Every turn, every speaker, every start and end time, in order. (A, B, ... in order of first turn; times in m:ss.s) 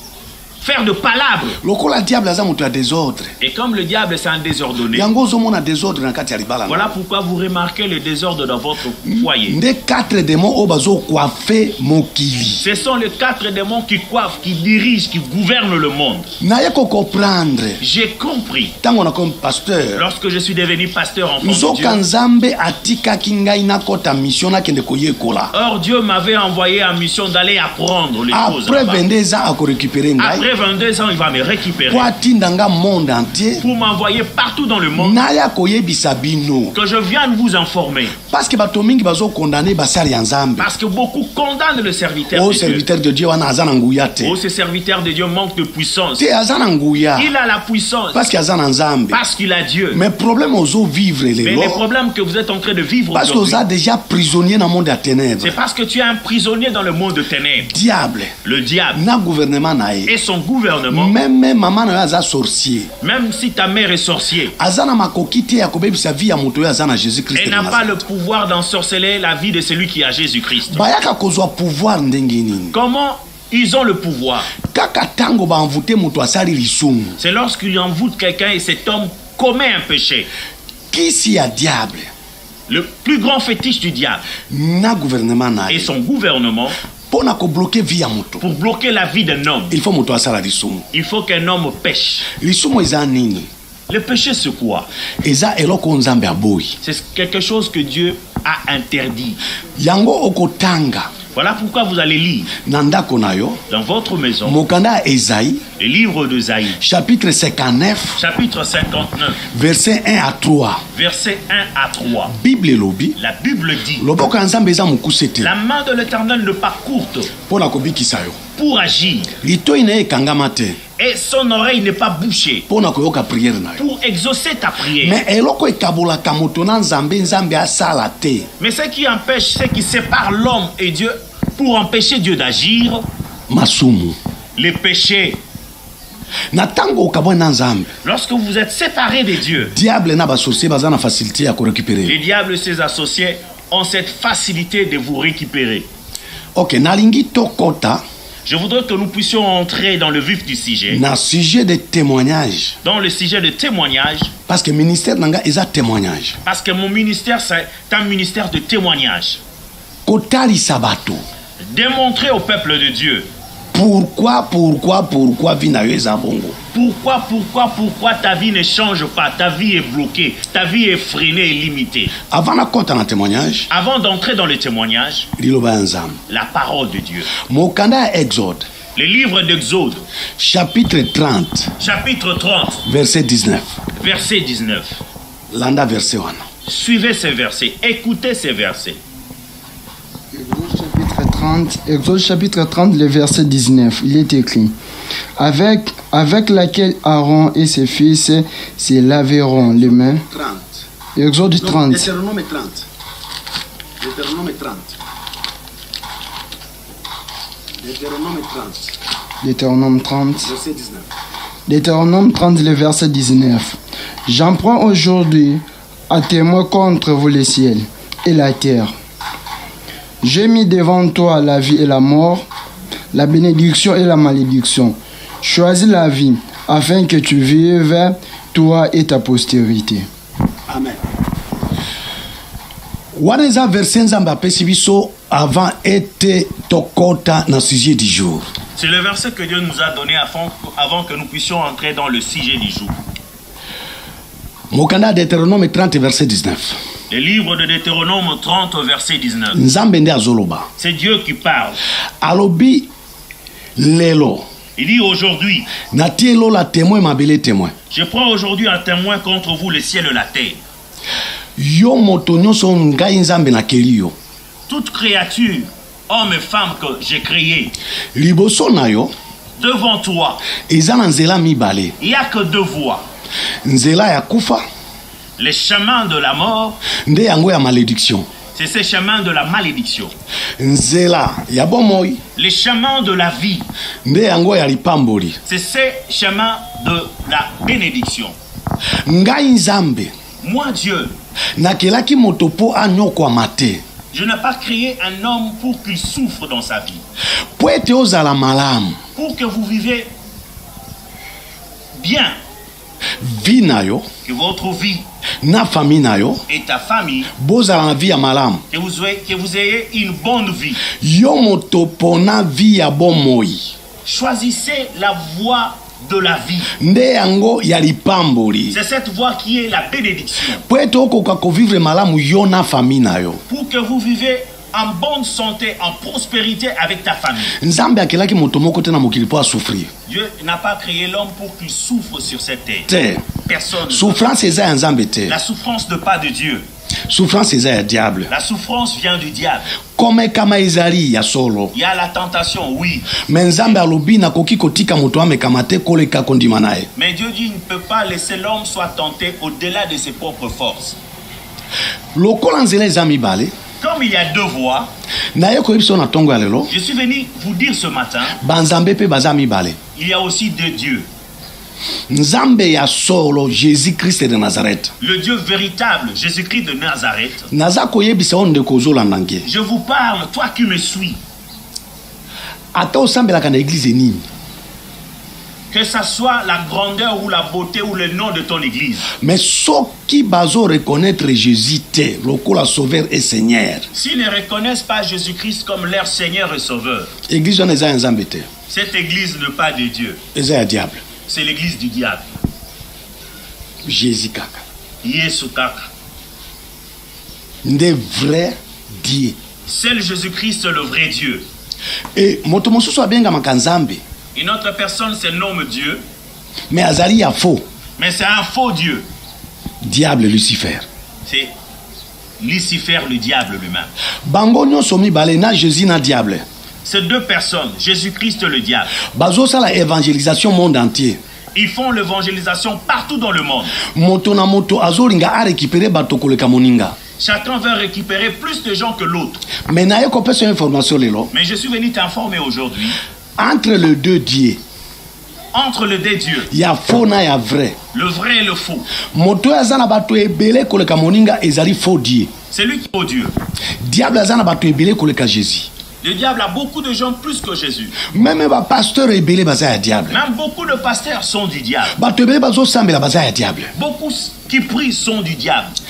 0:00.6-0:01.6 A
0:01.6-0:03.4 B
0:03.4-0:05.1 A
0:04.9-0:07.0 B
0:06.6-0:09.6 A
0:09.0-0:12.6 B
0:12.5-0:16.3 A
0:16.4-0:17.8 B
0:17.8-0:18.8 A
0:18.8-0:20.1 B
0:20.0-0:22.0 A
0:21.4-0:25.5 B
0:25.5-0:29.0 A
0:28.3-0:30.5 B
0:30.2-0:32.1 A
0:31.9-0:33.7 B
0:33.6-0:35.2 A
0:34.9-0:36.7 B
0:36.7-0:38.2 A
0:38.2-0:40.7 B
0:40.6-0:42.8 A
0:42.3-0:44.4 B
0:44.2-0:46.3 A
0:46.2-0:47.3 B
0:47.2-0:48.3 A
0:48.1-0:49.2 B
0:49.1-0:50.0 A
0:49.9-0:51.8 B
0:51.4-0:53.6 A
0:53.1-0:55.6 B
0:55.4-0:57.7 A
0:57.6-0:58.4 B
0:58.4-0:59.0 A
0:58.9-1:00.1 B
1:00.0-1:01.1 A
1:00.9-1:02.9 B
1:03.0-1:04.5 A
1:04.6-1:07.9 B
1:07.3-1:10.9 A
1:10.7-1:12.8 B
1:12.7-1:14.5 A
1:14.6-1:17.2 B
1:17.2-1:20.3 A
1:20.9-1:22.1 B
1:22.7-1:24.2 A
1:24.5-1:25.9 B
1:25.7-1:26.8 A
1:27.1-1:28.4 B
1:28.4-1:29.8 A
1:29.7-1:30.9 B
1:30.9-1:32.3 A
1:32.3-1:33.5 B
1:33.9-1:34.9 A
1:35.2-1:36.8 B
1:36.8-1:39.4 A
1:39.8-1:41.1 B
1:41.3-1:42.5 A
1:42.6-1:43.6 B
1:43.7-1:44.6 A
1:44.4-1:45.6 B
1:45.8-1:46.8 A
1:46.8-1:48.2 B
1:48.2-1:49.4 A
1:49.4-1:50.8 B
1:50.9-1:52.3 A
1:52.3-1:53.2 B
1:53.2-1:54.0 A
1:54.0-1:55.5 B
1:55.4-1:57.3 A
1:57.4-1:58.4 B
1:58.6-1:59.3 A
1:59.4-2:00.8 B
2:01.0-2:02.6 A
2:02.7-2:03.8 B
2:03.8-2:05.2 A
2:05.0-2:08.5 B
2:08.6-2:13.1 A
2:13.5-2:14.2 B
2:14.6-2:15.4 A
2:16.5-2:17.9 B
2:18.0-2:19.7 A
2:19.7-2:22.2 B
2:22.0-2:25.9 A
2:26.5-2:28.0 B
2:28.4-2:31.0 A
2:30.9-2:32.8 B
2:32.8-2:34.3 A
2:34.5-2:36.4 B
2:36.4-2:39.4 A
2:40.0-2:41.2 B
2:41.6-2:43.3 A
2:43.7-2:46.6 B
2:46.7-2:52.1 A
2:52.2-2:53.7 B
2:53.7-2:55.3 A
2:55.4-2:56.2 B
2:56.3-2:57.3 A
2:57.3-2:58.7 B
2:59.0-3:00.0 A
3:00.4-3:01.7 B
3:01.8-3:02.8 A
3:02.8-3:03.8 B
3:04.0-3:05.0 A
3:05.5-3:06.4 B
3:06.7-3:09.0 A
3:10.3-3:14.7 C
3:15.4-3:20.2 C
3:19.7-3:20.9 B
3:21.2-3:22.1 C
3:21.6-3:22.9 B
3:24.0-3:25.0 B
3:27.8-3:28.9 B
3:29.4-3:30.5 C
3:30.4-3:31.1 B
3:31.6-3:38.9 C
3:40.2-3:42.5 C
3:43.1-3:50.1 C
3:50.7-3:51.0 B
3:53.1-3:58.5 B
3:58.8-4:03.0 A
4:04.7-4:06.8 B
4:07.1-4:09.6 A
4:09.5-4:10.7 B
4:10.8-4:11.8 A
4:12.2-4:12.9 B
4:13.8-4:14.4 B
4:14.8-4:15.7 A
4:15.8-4:17.7 B
4:17.9-4:20.6 A
4:21.6-4:24.1 B
4:24.7-4:27.7 A
4:28.1-4:29.1 B
4:29.6-4:30.5 A
4:30.6-4:31.9 B
4:32.0-4:33.0 A
4:33.6-4:34.6 B
4:35.4-4:36.8 A
4:37.0-4:38.3 B
4:38.5-4:40.2 A
4:40.6-4:42.2 B
4:42.4-4:43.7 A
4:44.0-4:45.4 B
4:45.4-4:48.4 A
4:49.0-4:50.1 B
4:50.4-4:51.1 A
4:51.6-4:53.8 B
4:54.1-4:57.0 A
4:57.6-4:59.0 B
4:59.2-5:00.1 A
5:02.0-5:02.4 A
5:03.2-5:04.1 B
5:04.2-5:05.1 A
5:05.4-5:06.4 B
5:06.5-5:07.3 A
5:07.4-5:08.6 B
5:08.7-5:10.8 A
5:10.8-5:13.7 B
5:14.0-5:16.7 A
5:16.7-5:18.8 B
5:18.7-5:20.6 A
5:20.6-5:23.4 B
5:23.5-5:27.6 A
5:27.5-5:29.9 B
5:30.0-5:34.2 A
5:32.9-5:33.3 B
5:33.9-5:35.4 B
5:35.3-5:36.6 A
5:37.1-5:38.3 B
5:38.3-5:39.7 A
5:39.9-5:41.7 B
5:41.7-5:43.2 A
5:43.2-5:46.9 B
5:47.0-5:51.0 A
5:52.1-5:53.5 B
5:53.8-5:54.9 A
5:55.3-5:56.7 B
5:56.7-5:58.4 A
5:58.4-5:59.8 B
5:59.9-6:01.1 A
6:02.1-6:04.9 B
6:05.0-6:07.5 A
6:07.5-6:09.4 B
6:09.4-6:11.2 A
6:12.7-6:14.3 B
6:15.7-6:19.1 A
6:19.1-6:23.9 B
6:23.9-6:27.1 A
6:27.3-6:28.5 B
6:28.7-6:30.2 A
6:30.3-6:31.0 B
6:31.3-6:32.3 A
6:33.8-6:34.6 B
6:35.0-6:35.9 A
6:37.6-6:39.4 B
6:39.7-6:41.5 A
6:42.2-6:44.0 B
6:44.3-6:46.0 A
6:46.7-6:47.6 B
6:48.0-6:49.1 A
6:49.8-6:50.8 B
6:51.3-6:51.5 A
6:52.4-6:53.9 A
6:54.2-6:56.4 B
6:56.8-6:59.0 A
6:59.0-7:01.2 B
7:01.5-7:03.8 A
7:03.8-7:07.0 B
7:07.2-7:09.5 A
7:09.6-7:11.3 B
7:11.3-7:13.0 A
7:13.4-7:14.6 B
7:15.5-7:16.5 A
7:16.5-7:17.8 B
7:17.9-7:18.9 A
7:19.0-7:22.3 B
7:22.5-7:23.3 A
7:23.8-7:25.7 B
7:26.0-7:28.1 A
7:28.1-7:30.2 B
7:30.1-7:31.9 A
7:31.9-7:33.7 B
7:33.8-7:35.7 A